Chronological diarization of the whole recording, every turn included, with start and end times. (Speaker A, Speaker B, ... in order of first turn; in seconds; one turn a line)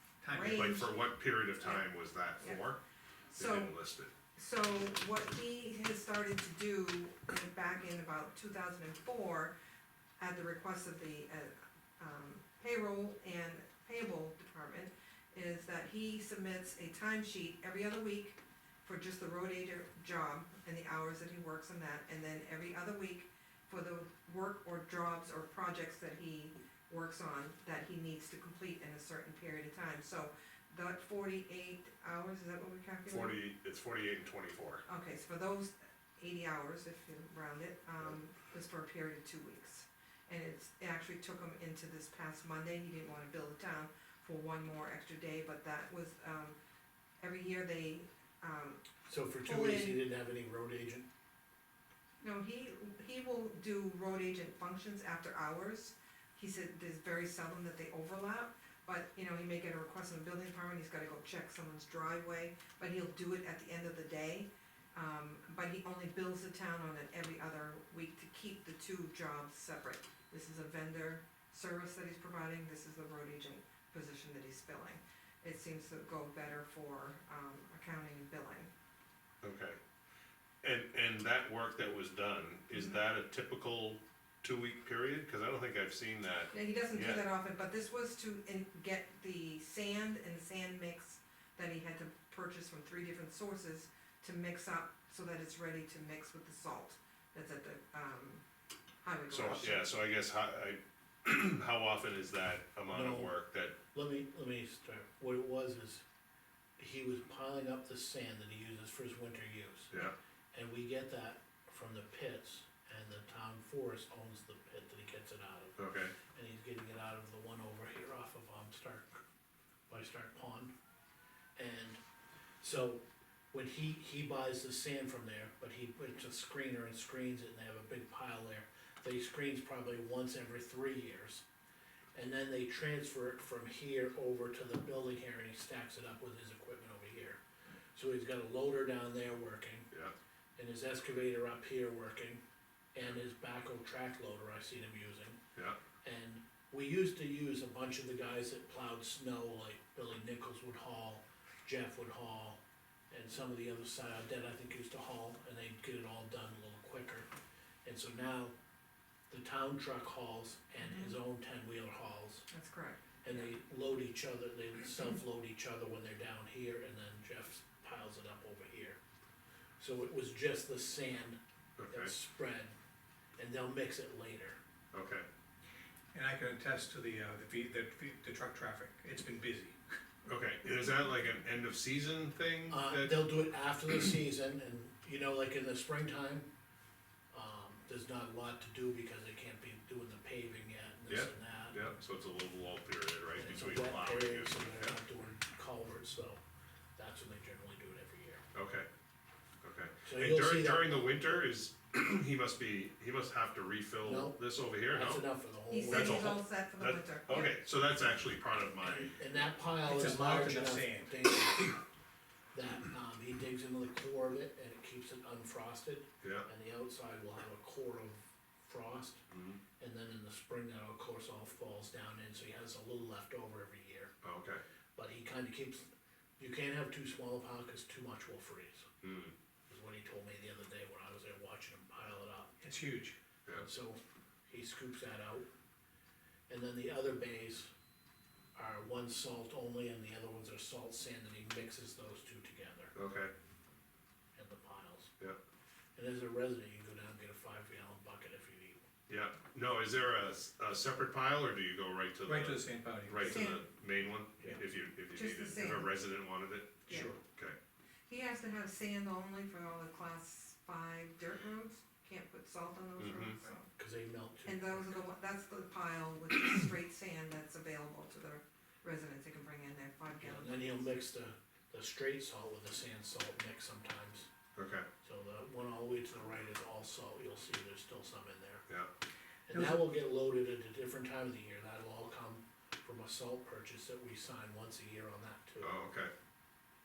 Speaker A: 0.2-0.7
Speaker B: 0.3-0.9
Speaker C: 0.5-2.8
Speaker B: 3.3-3.7
Speaker C: 3.3-4.1
Speaker B: 4.3-9.5
Speaker B: 10.2-33.4
Speaker C: 33.1-34.8
Speaker B: 34.9-46.6
Speaker B: 47.2-48.8
Speaker D: 49.1-51.1
Speaker B: 49.4-50.0
Speaker B: 52.2-78.7
Speaker C: 79.4-79.8
Speaker C: 80.6-87.2
Speaker B: 82.7-83.0
Speaker B: 86.5-98.4
Speaker B: 99.0-99.8
Speaker C: 99.3-103.8
Speaker D: 102.9-103.3
Speaker D: 103.9-106.0
Speaker D: 106.8-109.9
Speaker D: 110.5-119.2
Speaker C: 115.8-116.1
Speaker D: 119.9-120.7
Speaker D: 121.5-122.0
Speaker D: 122.6-131.4
Speaker D: 132.1-137.4
Speaker D: 137.9-139.9
Speaker D: 140.6-142.4
Speaker D: 142.9-145.4
Speaker D: 146.0-157.3
Speaker D: 157.8-158.5
Speaker D: 159.3-162.4
Speaker B: 160.8-161.1
Speaker B: 162.5-163.5
Speaker D: 163.2-169.0
Speaker D: 169.8-171.4
Speaker C: 171.8-172.1
Speaker D: 171.9-172.7
Speaker D: 173.4-174.6
Speaker C: 174.9-175.2
Speaker A: 176.1-179.8
Speaker C: 180.2-183.1
Speaker D: 182.7-186.5
Speaker D: 187.3-191.9
Speaker C: 191.1-194.9
Speaker D: 193.3-196.4
Speaker D: 196.9-198.4
Speaker C: 198.5-198.9
Speaker C: 199.6-205.2
Speaker D: 200.1-201.4
Speaker D: 204.0-204.4
Speaker D: 204.9-206.3
Speaker B: 205.7-207.5
Speaker C: 205.9-209.2
Speaker D: 209.1-211.8
Speaker A: 209.8-211.7
Speaker D: 212.5-219.2
Speaker C: 216.2-216.5
Speaker C: 219.3-219.6
Speaker D: 219.8-224.1
Speaker C: 224.2-224.6
Speaker D: 224.9-228.9
Speaker C: 229.0-229.3
Speaker D: 229.7-232.6
Speaker A: 232.6-233.2
Speaker D: 233.5-235.5
Speaker D: 236.5-237.7
Speaker D: 238.5-242.9
Speaker C: 242.9-243.3
Speaker D: 244.3-245.1
Speaker D: 245.9-248.8
Speaker C: 249.1-257.6
Speaker A: 252.2-253.5
Speaker B: 253.2-253.6
Speaker B: 255.1-255.9
Speaker B: 256.9-257.1
Speaker A: 256.9-257.2
Speaker B: 258.1-263.7
Speaker C: 263.0-263.4
Speaker D: 263.8-265.0
Speaker B: 264.4-270.9
Speaker D: 270.2-274.3
Speaker C: 274.6-274.9
Speaker D: 275.0-278.6
Speaker D: 279.5-285.8
Speaker A: 279.5-279.8
Speaker C: 285.6-286.1